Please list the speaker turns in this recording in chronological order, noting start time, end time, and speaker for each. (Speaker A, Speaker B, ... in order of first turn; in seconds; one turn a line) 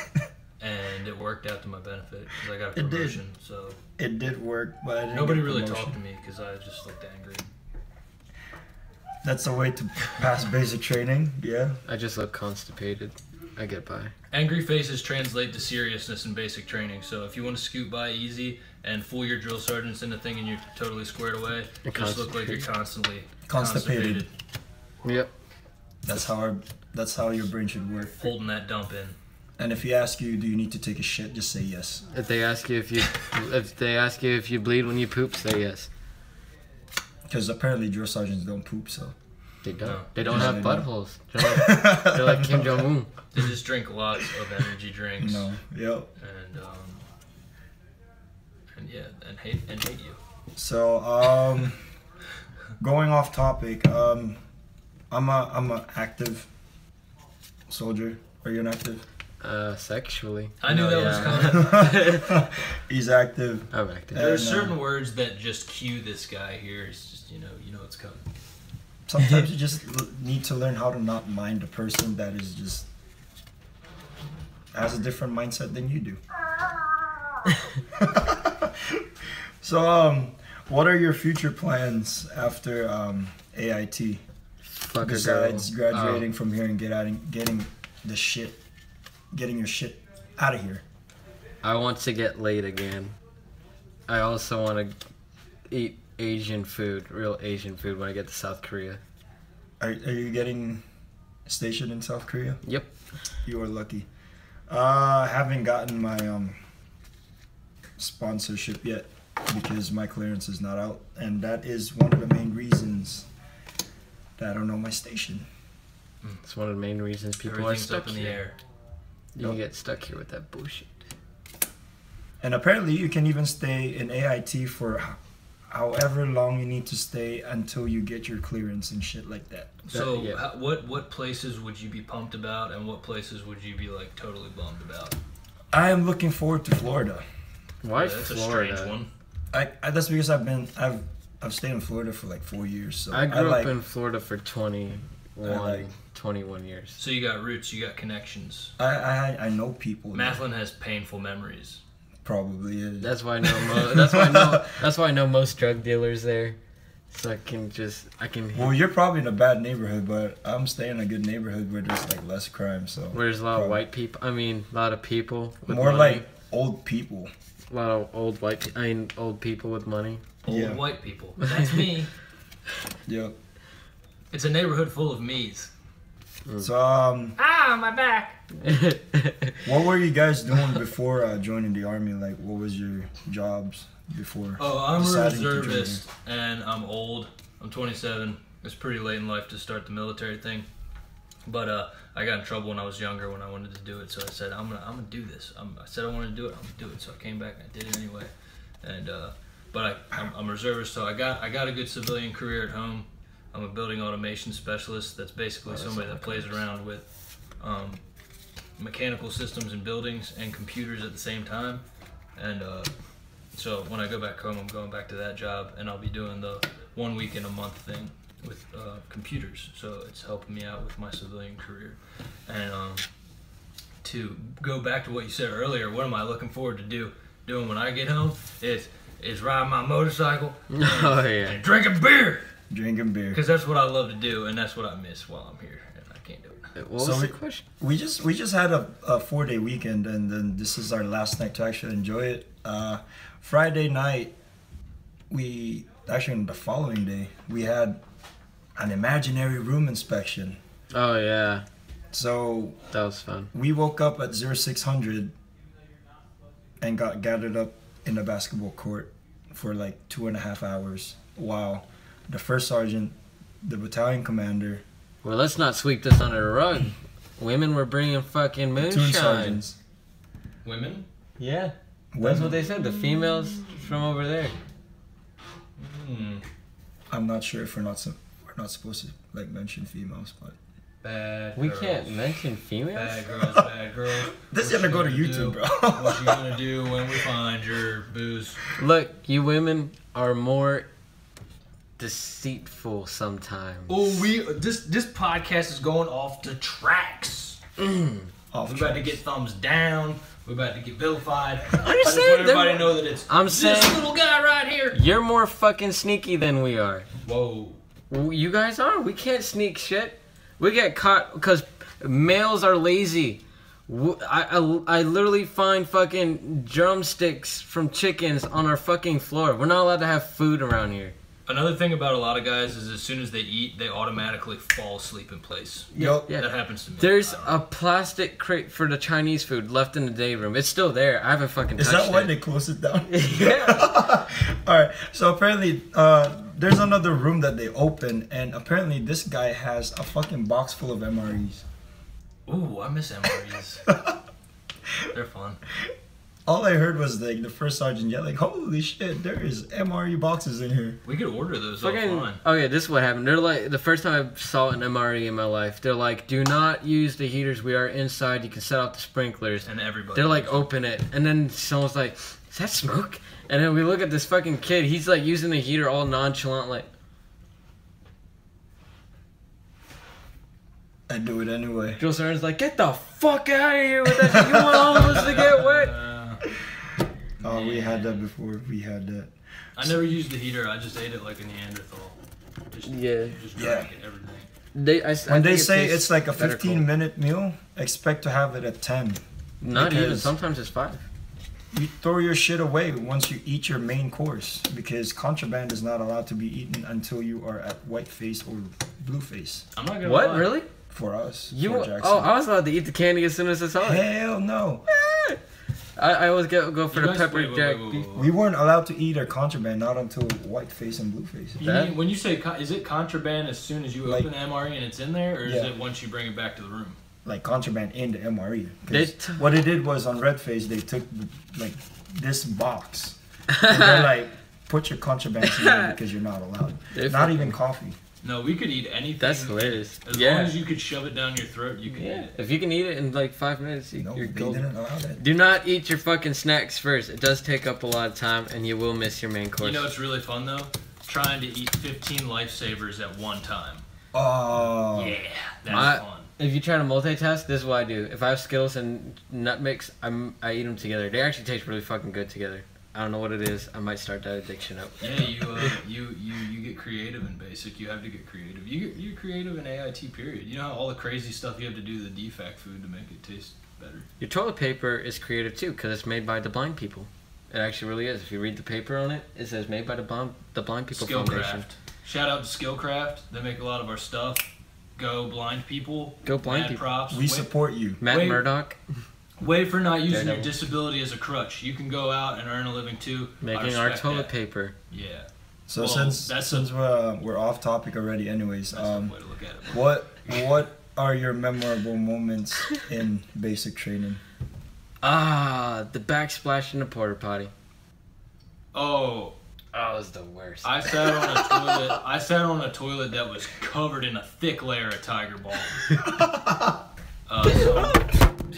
Speaker A: 0.6-3.8
Speaker B: 2.7-3.2
Speaker B: 4.0-6.0
Speaker A: 5.1-7.5
Speaker B: 9.2-11.8
Speaker C: 11.8-14.1
Speaker A: 14.3-24.3
Speaker C: 21.8-22.6
Speaker B: 23.5-24.2
Speaker C: 25.0-25.3
Speaker B: 26.0-28.1
Speaker A: 28.2-29.1
Speaker B: 29.6-32.1
Speaker C: 32.1-35.9
Speaker B: 37.3-39.1
Speaker C: 39.6-43.1
Speaker A: 39.8-40.6
Speaker B: 40.2-40.9
Speaker B: 41.4-42.9
Speaker A: 43.3-45.5
Speaker B: 45.2-46.1
Speaker A: 46.2-47.0
Speaker A: 48.7-50.2
Speaker B: 50.5-51.8
Speaker B: 52.8-54.4
Speaker B: 55.1-56.5
Speaker B: 57.7-59.0
Speaker C: 59.4-62.4
Speaker A: 60.6-62.0
Speaker B: 61.1-64.8
Speaker C: 63.7-64.2
Speaker A: 64.1-68.2
Speaker B: 69.1-72.9
Speaker B: 74.7-76.2
Speaker B: 78.0-79.0
Speaker B: 79.6-84.2
Speaker C: 84.7-86.2
Speaker B: 85.0-88.6
Speaker B: 89.3-90.8
Speaker C: 91.6-93.1
Speaker C: 94.1-94.9
Speaker C: 95.7-99.0
Speaker B: 99.8-100.8
Speaker B: 101.5-102.6
Speaker C: 102.6-102.9
Speaker B: 103.4-104.0
Speaker B: 104.7-106.6
Speaker B: 108.0-113.3
Speaker B: 114.4-115.4
Speaker C: 116.4-118.4
Speaker A: 117.4-118.6
Speaker C: 119.3-120.9
Speaker B: 122.4-125.2
Speaker B: 125.7-129.8
Speaker A: 129.9-135.2
Speaker C: 129.9-130.4
Speaker B: 135.7-137.2
Speaker C: 137.8-139.0
Speaker A: 137.9-139.1
Speaker B: 139.5-143.7
Speaker C: 143.1-147.0
Speaker B: 145.4-145.9
Speaker A: 147.0-148.7
Speaker B: 148.8-150.4
Speaker A: 150.1-151.8
Speaker B: 152.2-154.7
Speaker C: 153.0-156.6
Speaker C: 157.1-158.8
Speaker B: 158.5-163.8
Speaker C: 163.1-166.2
Speaker B: 165.7-167.3
Speaker C: 167.7-170.2
Speaker A: 170.4-172.1
Speaker B: 170.4-170.8
Speaker C: 171.5-171.8
Speaker B: 173.1-173.3
Speaker A: 174.3-175.7
Speaker B: 176.6-177.4
Speaker A: 177.4-178.5
Speaker C: 178.6-179.6
Speaker B: 179.6-186.0
Speaker A: 184.6-190.7
Speaker A: 191.4-198.3
Speaker A: 198.8-207.1
Speaker C: 205.6-206.6
Speaker A: 207.6-208.0
Speaker A: 208.8-211.8
Speaker A: 212.3-212.9
Speaker A: 213.5-223.1
Speaker A: 224.0-232.5
Speaker C: 230.7-231.6
Speaker B: 232.7-233.4
Speaker A: 233.3-236.7
Speaker C: 236.8-237.6
Speaker B: 237.0-244.3
Speaker B: 245.3-248.0
Speaker B: 248.8-250.6
Speaker C: 250.9-251.7
Speaker B: 252.1-252.8
Speaker C: 252.9-253.5
Speaker B: 253.5-255.3
Speaker B: 256.8-264.8
Speaker C: 265.2-269.6
Speaker B: 268.8-269.8
Speaker A: 270.6-271.1
Speaker C: 271.4-274.5
Speaker B: 272.1-272.6
Speaker A: 272.3-272.6
Speaker A: 275.8-276.4
Speaker B: 277.1-280.6
Speaker A: 281.0-282.2
Speaker C: 281.5-283.2
Speaker A: 282.9-288.6
Speaker B: 284.2-286.6
Speaker C: 288.8-290.9
Speaker C: 292.0-294.2
Speaker A: 293.9-297.6
Speaker C: 297.8-298.3
Speaker B: 298.5-299.1
Speaker A: 298.6-305.0
Speaker C: 301.7-304.0
Speaker C: 304.9-307.1
Speaker A: 307.2-307.8
Speaker C: 308.1-321.1
Speaker A: 321.4-327.6
Speaker C: 325.9-332.3
Speaker B: 325.9-326.3
Speaker B: 331.8-341.6
Speaker C: 333.1-334.0
Speaker A: 342.5-343.8
Speaker B: 343.9-344.2
Speaker A: 345.1-345.6
Speaker B: 346.4-351.0
Speaker A: 351.0-352.4
Speaker C: 351.8-366.9
Speaker A: 359.6-360.7
Speaker B: 371.1-372.0
Speaker C: 372.0-375.9
Speaker B: 374.1-375.1
Speaker A: 374.9-376.4
Speaker A: 377.4-378.2
Speaker B: 377.4-380.0
Speaker A: 379.8-382.2
Speaker A: 382.7-384.5
Speaker C: 382.8-383.4
Speaker B: 383.6-383.9
Speaker C: 384.7-386.9
Speaker B: 385.3-390.3
Speaker C: 389.6-391.1
Speaker B: 391.7-399.6
Speaker A: 399.7-400.6
Speaker C: 400.0-400.7
Speaker B: 400.9-402.3
Speaker C: 401.5-404.1
Speaker B: 403.8-404.8
Speaker C: 404.9-405.4
Speaker C: 406.0-408.1
Speaker A: 406.9-408.3
Speaker B: 408.1-411.6
Speaker A: 411.6-417.0
Speaker C: 411.6-411.9
Speaker B: 414.0-414.3
Speaker B: 415.4-415.7
Speaker B: 417.2-428.0
Speaker C: 418.9-419.6
Speaker C: 423.5-424.1
Speaker C: 425.5-425.9
Speaker C: 426.9-427.6
Speaker A: 428.2-432.3
Speaker C: 429.2-430.6
Speaker C: 431.9-439.9
Speaker B: 434.0-435.2
Speaker A: 439.6-443.8
Speaker B: 444.1-445.2
Speaker A: 444.5-446.3
Speaker C: 445.7-455.3
Speaker A: 455.0-464.1
Speaker C: 464.2-471.6
Speaker A: 470.9-477.5
Speaker C: 476.2-476.8
Speaker B: 477.1-478.0
Speaker C: 478.0-478.8
Speaker A: 478.1-478.4
Speaker A: 479.4-484.3
Speaker C: 480.1-480.5
Speaker C: 483.4-484.7
Speaker A: 484.9-486.7
Speaker B: 485.7-489.1
Speaker A: 488.7-490.5
Speaker B: 489.7-494.2
Speaker C: 495.0-497.5
Speaker A: 498.7-499.4
Speaker C: 499.7-501.7
Speaker A: 500.6-505.9
Speaker B: 506.0-506.8
Speaker A: 507.3-508.1